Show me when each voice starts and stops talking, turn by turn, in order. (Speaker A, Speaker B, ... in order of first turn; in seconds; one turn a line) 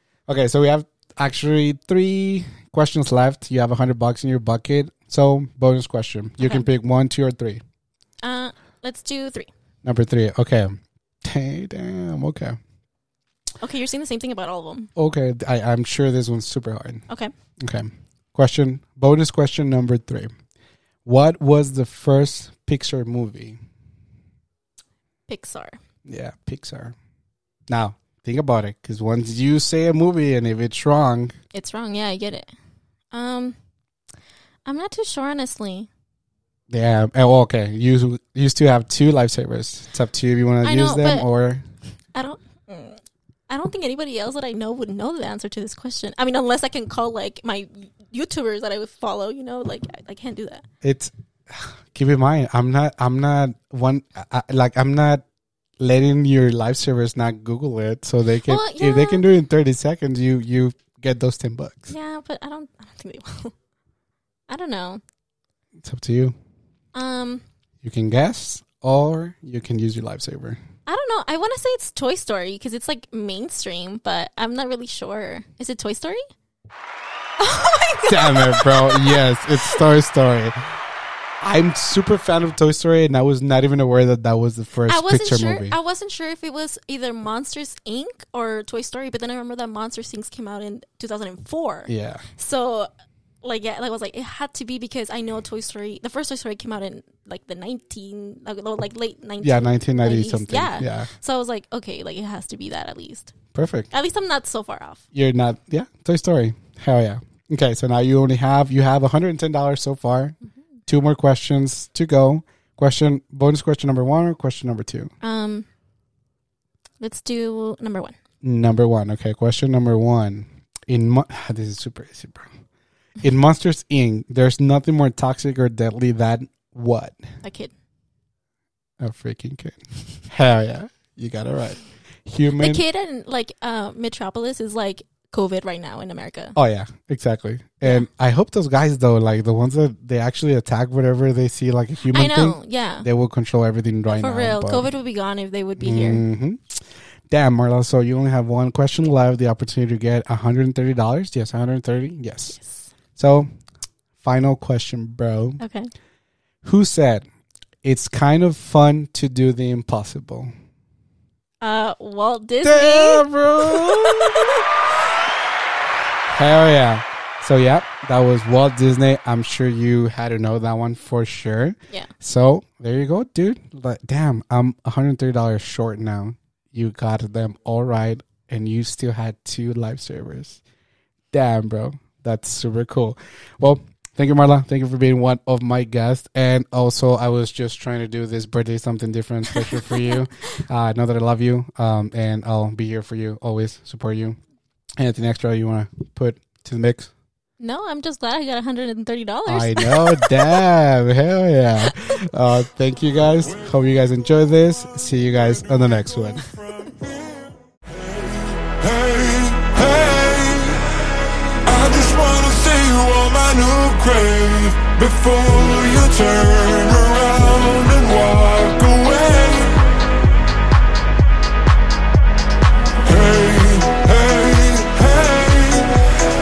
Speaker A: 0.3-7.6
Speaker B: 6.4-6.7
Speaker B: 8.2-9.5
Speaker A: 9.8-12.6
Speaker B: 13.6-14.9
Speaker A: 15.0-17.1
Speaker A: 17.6-20.3
Speaker A: 21.1-23.6
Speaker B: 25.3-25.8
Speaker A: 26.1-26.9
Speaker A: 27.7-31.3
Speaker B: 31.5-32.5
Speaker B: 33.1-33.6
Speaker B: 34.7-35.9
Speaker A: 36.7-41.6
Speaker B: 40.6-41.3
Speaker B: 42.1-50.6
Speaker A: 50.8-55.2
Speaker A: 55.8-61.9
Speaker B: 58.5-59.2
Speaker B: 61.9-63.5
Speaker B: 64.5-65.0
Speaker A: 65.8-66.4
Speaker B: 66.9-67.4
Speaker A: 67.8-70.6
Speaker B: 70.9-76.2
Speaker B: 77.4-79.8
Speaker A: 78.1-80.5
Speaker A: 81.4-85.8
Speaker B: 84.9-92.9
Speaker A: 91.9-92.2
Speaker B: 93.4-103.3
Speaker A: 99.4-101.1
Speaker A: 103.5-103.9
Speaker B: 103.9-105.0
Speaker A: 105.1-110.4
Speaker A: 110.9-115.1
Speaker B: 115.2-115.7
Speaker B: 117.0-118.2
Speaker A: 118.4-122.5
Speaker A: 123.2-127.2
Speaker B: 127.4-127.7
Speaker A: 129.0-132.8
Speaker B: 132.6-136.6
Speaker A: 136.6-144.9
Speaker B: 142.1-143.1
Speaker B: 144.1-146.2
Speaker A: 145.8-152.6
Speaker B: 152.5-152.9
Speaker A: 153.2-153.5
Speaker A: 154.2-155.6
Speaker B: 155.6-155.9
Speaker A: 156.6-157.3
Speaker A: 157.8-160.5
Speaker B: 161.6-164.7
Speaker A: 162.6-164.5
Speaker A: 166.3-180.6
Speaker A: 181.3-194.4
Speaker B: 189.6-190.2
Speaker A: 195.0-197.1
Speaker B: 197.6-200.6
Speaker A: 199.5-206.6
Speaker C: 203.5-203.8
Speaker C: 206.6-210.9
Speaker C: 211.6-219.9
Speaker C: 223.0-225.9